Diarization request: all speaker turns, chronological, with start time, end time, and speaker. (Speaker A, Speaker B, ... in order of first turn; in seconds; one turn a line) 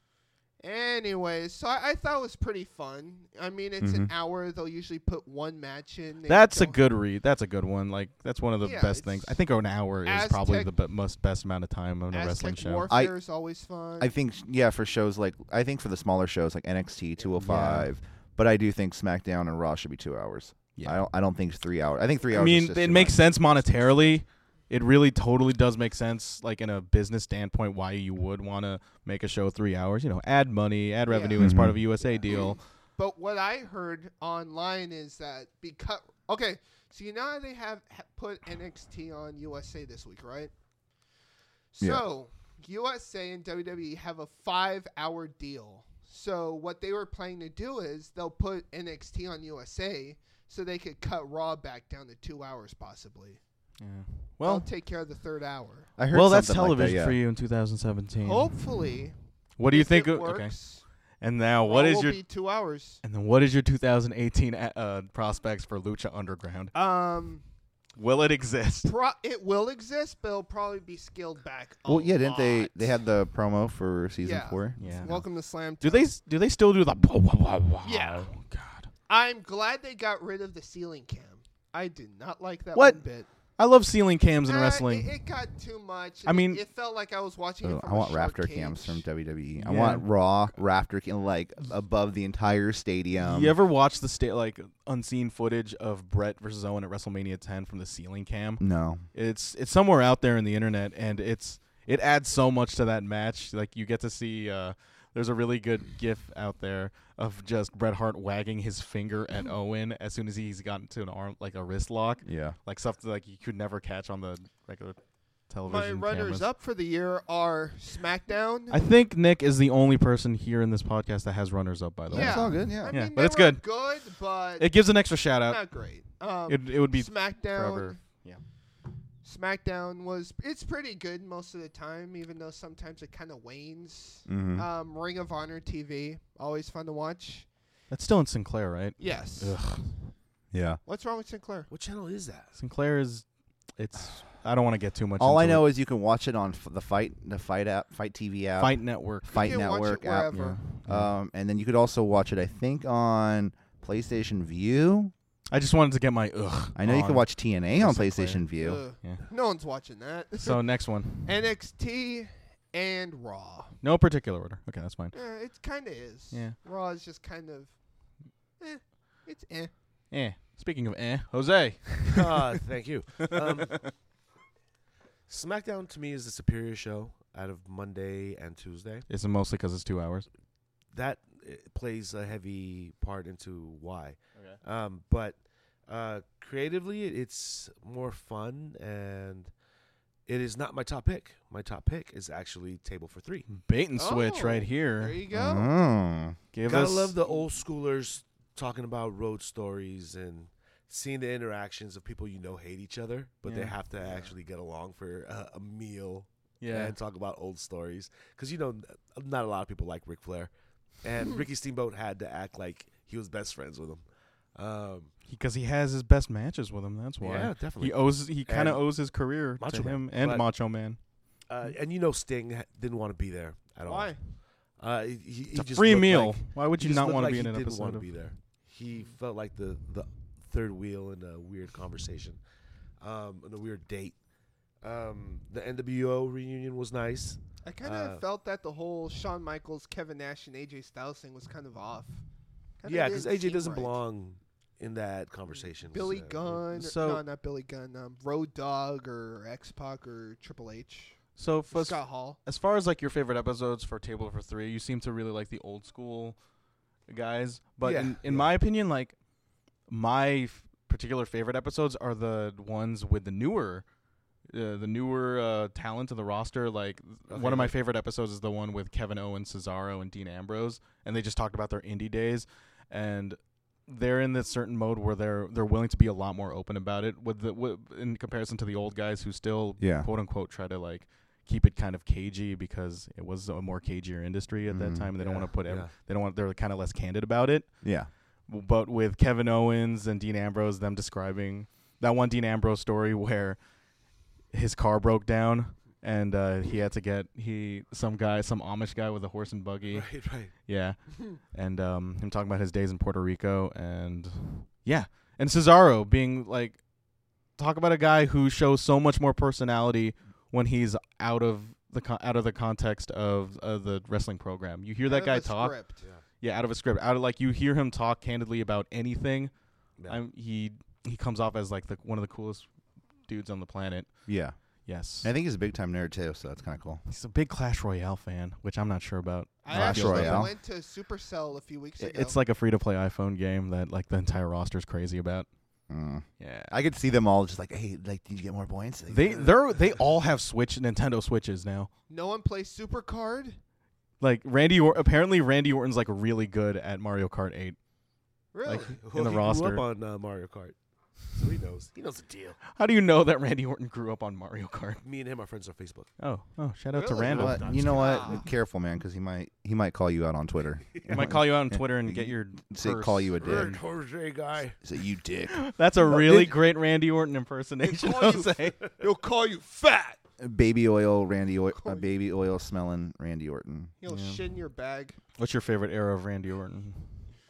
Speaker A: 0.6-6.8
Speaker B: 3.8-4.1
Speaker C: 6.2-12.9
Speaker A: 8.6-9.4
Speaker A: 10.0-10.7
Speaker A: 12.1-14.1
Speaker B: 12.9-13.1
Speaker B: 14.0-23.3
Speaker C: 17.4-17.9
Speaker C: 20.8-21.0
Speaker C: 22.3-32.6
Speaker A: 31.1-31.5
Speaker B: 31.4-31.8
Speaker A: 32.3-40.5
Speaker A: 41.7-53.4
Speaker B: 41.8-42.0
Speaker C: 53.8-54.7
Speaker A: 54.4-55.9
Speaker B: 56.0-57.2
Speaker C: 56.1-58.6
Speaker A: 58.2-59.1
Speaker C: 59.6-60.5
Speaker A: 59.7-60.8
Speaker C: 61.2-62.2
Speaker A: 61.6-63.0
Speaker C: 63.0-66.7
Speaker A: 66.7-67.4
Speaker C: 68.0-68.9
Speaker A: 68.8-73.0
Speaker B: 71.9-75.2
Speaker A: 74.2-76.1
Speaker C: 74.8-75.2
Speaker C: 75.8-78.9
Speaker A: 77.8-78.3
Speaker A: 79.1-83.3
Speaker C: 82.7-83.0
Speaker C: 83.6-85.1
Speaker A: 84.5-89.0
Speaker C: 86.2-86.6
Speaker B: 87.6-93.5
Speaker C: 89.6-90.1
Speaker C: 93.2-116.5
Speaker B: 98.6-99.0
Speaker B: 112.2-112.6
Speaker A: 115.7-118.8
Speaker C: 118.7-123.6
Speaker B: 122.1-122.9
Speaker A: 122.1-124.8
Speaker C: 124.6-125.6
Speaker A: 125.4-128.0
Speaker C: 126.5-128.4
Speaker A: 129.2-137.5
Speaker B: 134.3-134.7
Speaker C: 137.9-139.9
Speaker A: 139.0-139.6
Speaker B: 140.5-140.8
Speaker A: 140.8-141.7
Speaker D: 141.7-142.6
Speaker C: 142.6-143.2
Speaker C: 143.8-145.7
Speaker B: 145.2-155.1
Speaker C: 148.6-149.6
Speaker A: 149.3-150.6
Speaker C: 150.3-151.1
Speaker C: 155.5-158.4
Speaker B: 156.7-158.8
Speaker A: 158.5-160.6
Speaker C: 160.4-161.4
Speaker A: 161.2-163.8
Speaker C: 163.8-165.1
Speaker A: 165.1-167.8
Speaker A: 168.6-169.7
Speaker C: 170.1-172.4
Speaker D: 172.1-173.9
Speaker D: 175.3-179.1
Speaker C: 179.1-180.3
Speaker D: 180.9-189.5
Speaker D: 190.2-193.5
Speaker C: 193.5-195.2
Speaker A: 194.0-195.9
Speaker B: 195.3-196.4
Speaker C: 196.5-197.2
Speaker D: 196.6-214.0
Speaker C: 203.4-203.7
Speaker A: 204.0-204.3
Speaker C: 206.6-206.9
Speaker D: 214.5-215.1
Speaker C: 215.3-221.0
Speaker D: 217.2-218.8
Speaker D: 219.6-220.5
Speaker D: 221.5-232.4
Speaker A: 223.8-224.2
Speaker C: 225.5-228.1
Speaker D: 233.0-234.2
Speaker D: 234.8-238.2
Speaker A: 237.6-242.2
Speaker A: 242.8-244.0
Speaker D: 242.8-246.6
Speaker A: 245.9-252.4
Speaker C: 246.7-247.2
Speaker C: 251.3-256.4
Speaker C: 257.1-259.1
Speaker D: 257.8-258.5
Speaker C: 259.9-263.8
Speaker C: 264.5-287.8
Speaker D: 267.3-267.7
Speaker B: 279.8-280.1
Speaker B: 284.7-285.1
Speaker D: 285.2-285.9
Speaker B: 287.8-288.1
Speaker C: 288.5-293.6
Speaker C: 294.5-306.8
Speaker D: 299.9-300.5
Speaker C: 307.6-315.8
Speaker A: 315.1-316.0
Speaker C: 316.4-319.5
Speaker C: 320.0-322.7
Speaker C: 323.2-324.1
Speaker B: 324.3-324.5
Speaker C: 324.9-325.3
Speaker B: 325.2-327.0
Speaker C: 327.1-330.5
Speaker A: 329.6-332.4
Speaker B: 329.7-330.5
Speaker C: 332.0-335.5
Speaker B: 335.9-339.4
Speaker C: 336.4-336.7
Speaker C: 339.1-341.9
Speaker D: 339.3-339.9
Speaker A: 342.1-343.6
Speaker C: 344.2-347.8
Speaker A: 348.5-349.0
Speaker C: 348.6-349.8
Speaker D: 348.9-352.6
Speaker C: 352.7-355.0
Speaker D: 355.0-356.1
Speaker C: 356.2-357.6
Speaker D: 356.9-358.4
Speaker B: 357.3-363.8
Speaker A: 357.8-358.4
Speaker C: 361.1-363.8
Speaker D: 363.4-364.8
Speaker B: 364.8-366.5
Speaker C: 365.5-368.8
Speaker D: 366.1-366.4
Speaker A: 367.8-370.2
Speaker B: 370.4-373.9
Speaker A: 371.7-372.1
Speaker A: 374.0-375.2
Speaker C: 374.1-374.4
Speaker C: 375.4-377.1